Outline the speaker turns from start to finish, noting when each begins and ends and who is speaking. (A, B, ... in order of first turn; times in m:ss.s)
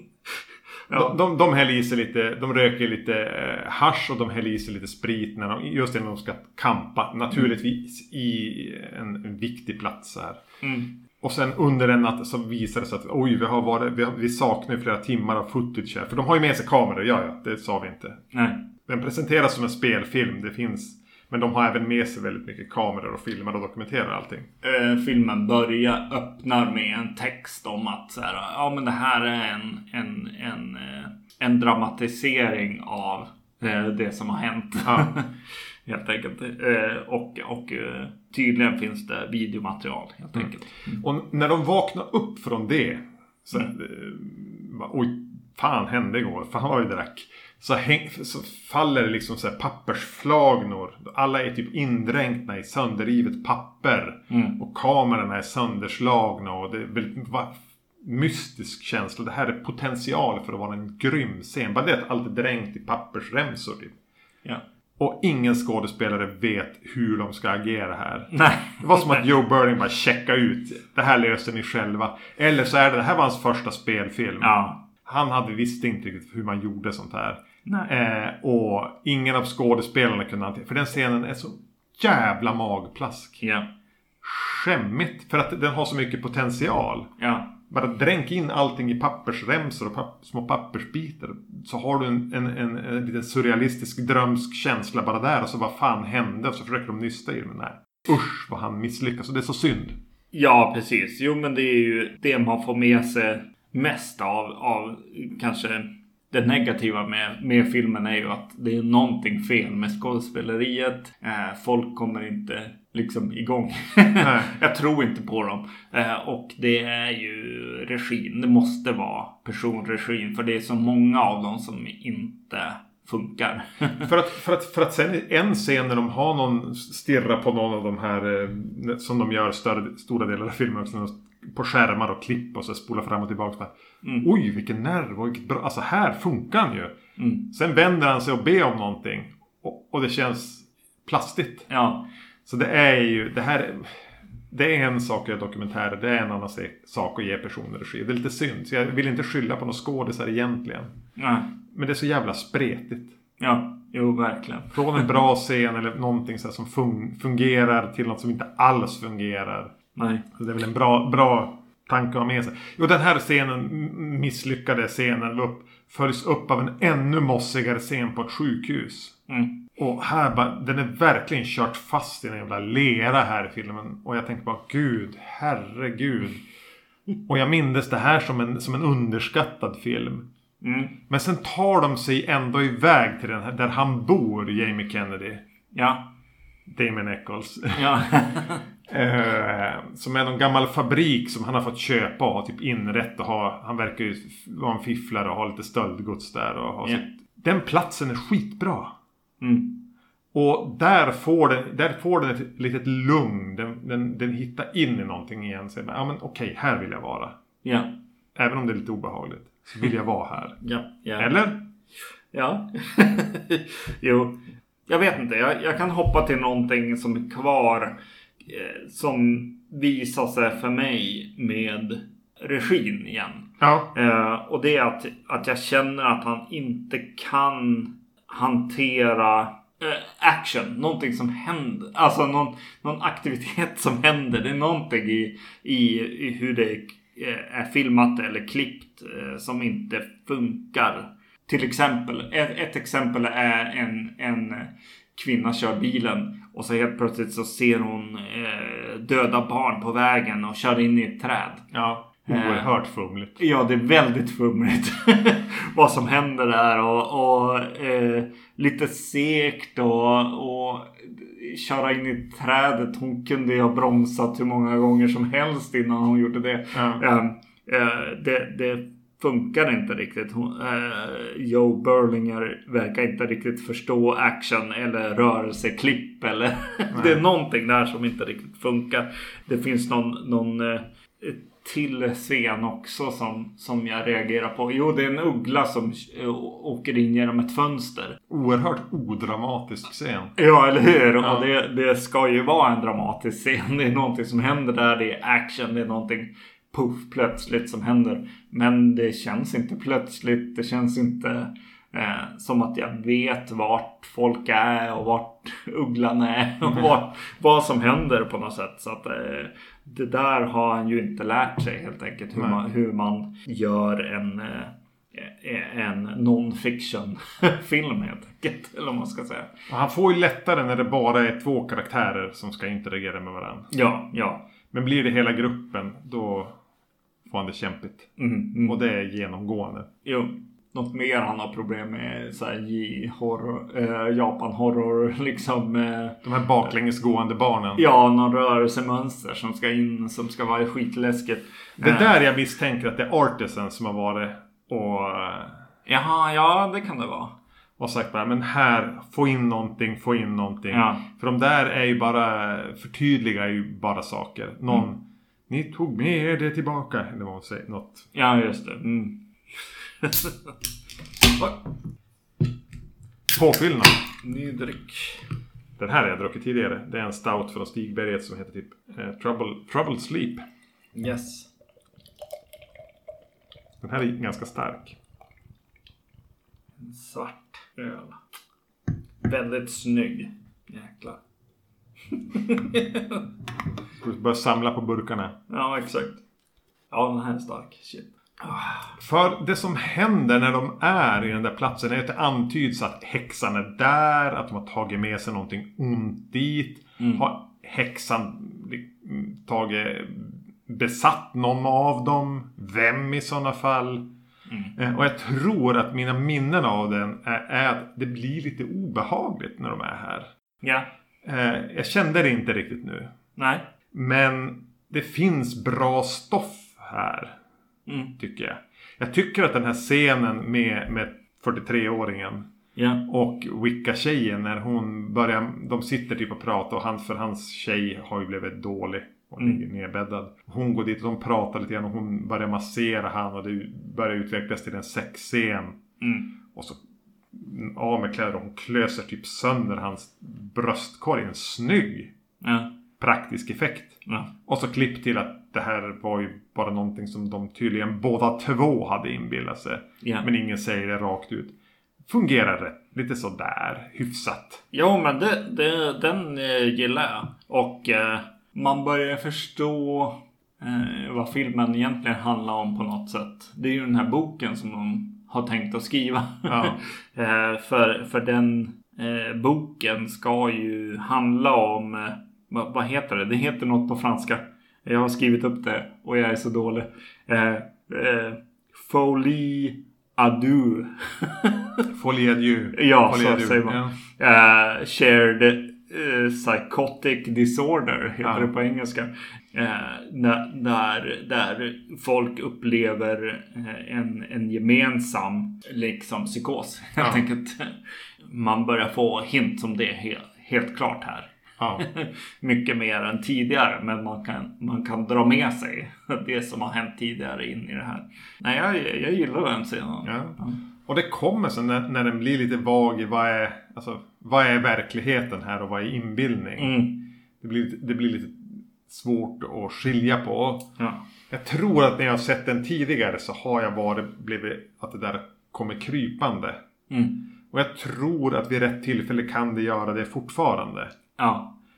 0:00.9-0:01.2 A
0:00.9-0:10.4 B
0:10.6-0:10.9 A
0:11.2-0:18.2 B
0:18.3-0:18.6 A
0:18.8-0:24.5 B
0:24.6-0:35.3 A
0:34.8-0:35.1 B
0:35.8-0:41.0 A
0:41.0-1:03.9 B
0:54.3-0:54.6 A
1:05.0-1:23.4 B
1:08.3-1:09.2 A
1:14.4-1:14.8 A
1:17.6-1:17.9 A
1:23.4-1:23.7 A
1:24.2-1:40.0 B
1:27.2-1:27.5 A
1:40.3-2:04.1 A
1:54.2-1:54.5 B
2:04.0-2:17.0 B
2:14.0-2:14.3 A
2:17.2-2:17.5 A
2:17.5-2:21.7 B
2:21.7-2:22.1 A
2:22.4-2:30.9 B
2:31.2-2:31.5 A
2:31.7-2:33.1 B
2:33.4-2:35.2 A
2:34.7-2:39.7 B
2:40.0-2:40.2 A
2:40.3-2:49.2 B
2:49.3-2:49.6 A
2:49.8-2:56.4 B
2:57.3-3:00.3 B
3:00.6-3:01.0 A
3:01.1-3:05.4 B
3:05.7-3:06.1 A
3:06.7-3:07.9 B
3:07.7-3:08.6 A
3:08.9-3:18.9 B
3:19.4-3:19.8 A
3:20.3-3:27.4 B
3:27.6-3:27.9 A
3:28.3-3:30.6 B
3:30.6-3:31.3 A
3:31.2-3:31.6 B
3:32.3-3:37.9 A
3:38.4-4:11.6 A
3:43.6-3:43.9 B
4:11.7-4:13.4 B
4:12.3-4:12.7 A
4:13.4-4:48.2 A
4:26.7-4:27.0 B
4:36.9-4:37.2 B
4:48.3-4:50.4 B
4:50.4-5:19.5 A
4:51.2-4:51.5 B
5:19.7-5:23.7 B
5:23.7-5:24.4 A
5:24.7-5:26.6 B
5:27.2-5:28.1 B
5:28.2-5:28.8 A
5:28.6-5:29.9 B
5:30.0-5:36.2 A
5:36.2-5:37.8 B
5:37.8-5:42.1 A
5:41.8-5:45.6 B
5:45.9-5:47.3 A
5:47.8-5:58.1 B
5:50.7-5:51.0 A
5:58.1-5:59.2 A
6:00.0-6:00.3 A
6:03.3-6:04.0 B
6:04.2-6:05.2 A
6:05.8-6:10.4 B
6:10.9-6:11.5 A
6:13.8-6:15.0 B
6:16.8-6:18.2 A
6:19.2-6:21.2 A
6:22.1-6:23.2 A
6:24.0-6:25.4 B
6:25.5-6:26.2 A
6:26.9-6:28.9 A
6:29.0-6:44.1 B
6:37.0-6:37.2 A
6:44.5-6:44.7 A
6:44.8-6:50.3 B
6:50.6-6:50.9 A
6:51.2-6:53.1 B
6:53.4-6:53.6 A
6:53.9-6:57.4 B
6:57.9-6:58.1 A
6:58.2-7:02.5 B
7:02.8-7:03.0 A
7:03.0-7:15.8 B
7:16.0-7:16.4 A
7:16.5-7:16.8 B
7:17.3-7:22.1 B
7:22.4-7:22.7 A
7:23.0-7:31.5 B
7:30.0-7:30.3 A
7:32.1-7:34.6 B
7:34.7-8:01.8 A
7:46.4-7:46.8 B
8:01.9-8:03.9 B
8:02.7-8:30.6 A
8:21.6-8:21.8 B
8:30.0-8:36.8 B
8:36.6-8:37.1 A
8:37.4-8:40.7 B
8:41.3-8:46.6 B
8:46.9-8:47.2 A
8:47.5-8:50.9 B
8:51.2-8:51.6 A